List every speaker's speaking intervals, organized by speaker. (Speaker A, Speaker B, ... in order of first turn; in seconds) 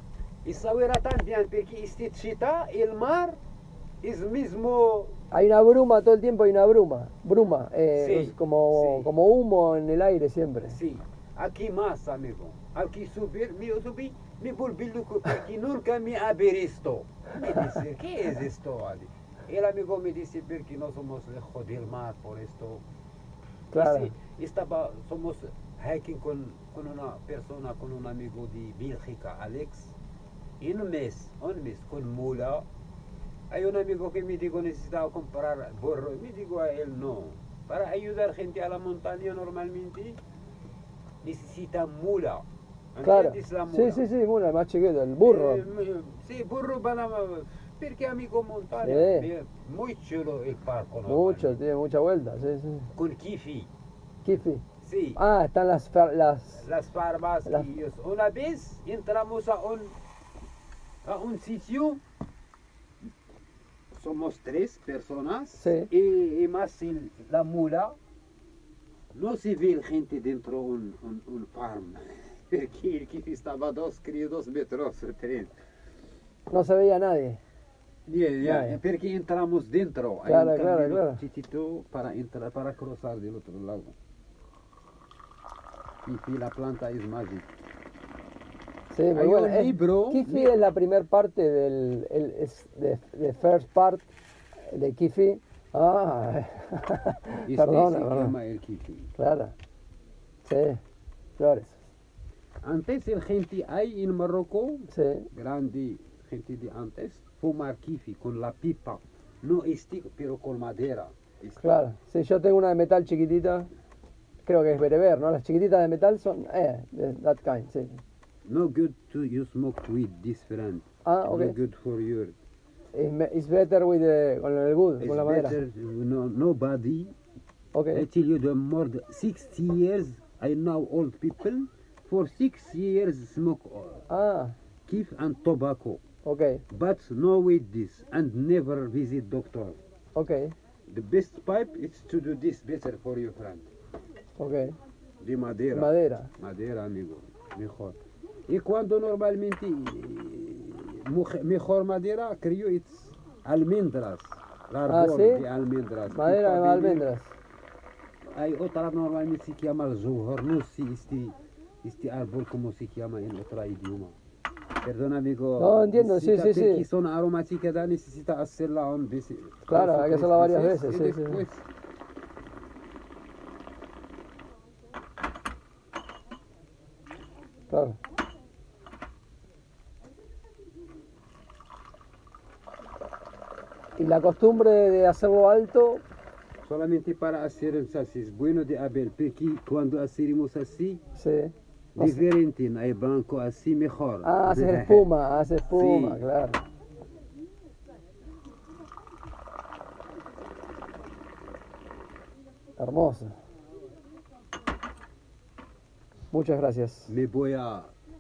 Speaker A: 0.4-3.4, 4.0-5.1, 8.0-9.1, 10.7-22.8, 23.7-30.0, 30.6-32.7, 33.5-40.2, 41.2-44.0, 45.2-51.6, 52.9-53.7, 54.8-55.2, 56.6-60.0, 61.0-62.0, 63.9-68.0, 69.1-75.5, 78.1-84.0, 86.0-87.5, 89.1-90.5, 97.5-99.1, 102.6-111.7, 118.5-122.4, 125.0-127.1, 127.9-134.0, 134.9-136.0, 136.7-139.8, 140.9-143.7, 145.2-157.0, 158.3-164.2, 164.8-171.6, 186.6-191.0, 191.9-195.1, 195.7-196.2, 207.1-207.9
Speaker B: 5.3-10.8, 23.7-24.1, 43.0-45.6, 48.8-49.3, 51.0-52.9, 54.2-54.6, 55.2-56.6, 65.6-65.9, 76.5-77.4, 78.4-78.8, 80.3-81.2, 88.9-94.0, 94.7-98.4, 99.2-99.5, 100.5-100.8, 101.4-101.8, 104.9-105.3, 111.6-113.7, 114.5-118.0, 121.0-121.6, 122.9-125.6, 127.8-128.1, 134.1-134.5, 136.2-136.6, 140.2-140.5, 144.4-144.8, 145.7-146.3, 154.8-155.4, 156.1-157.3, 165.6-166.8, 169.7-171.4, 177.7-178.0, 184.0-186.0, 191.2-192.2, 194.2-196.6, 202.8-203.3, 206.3-207.1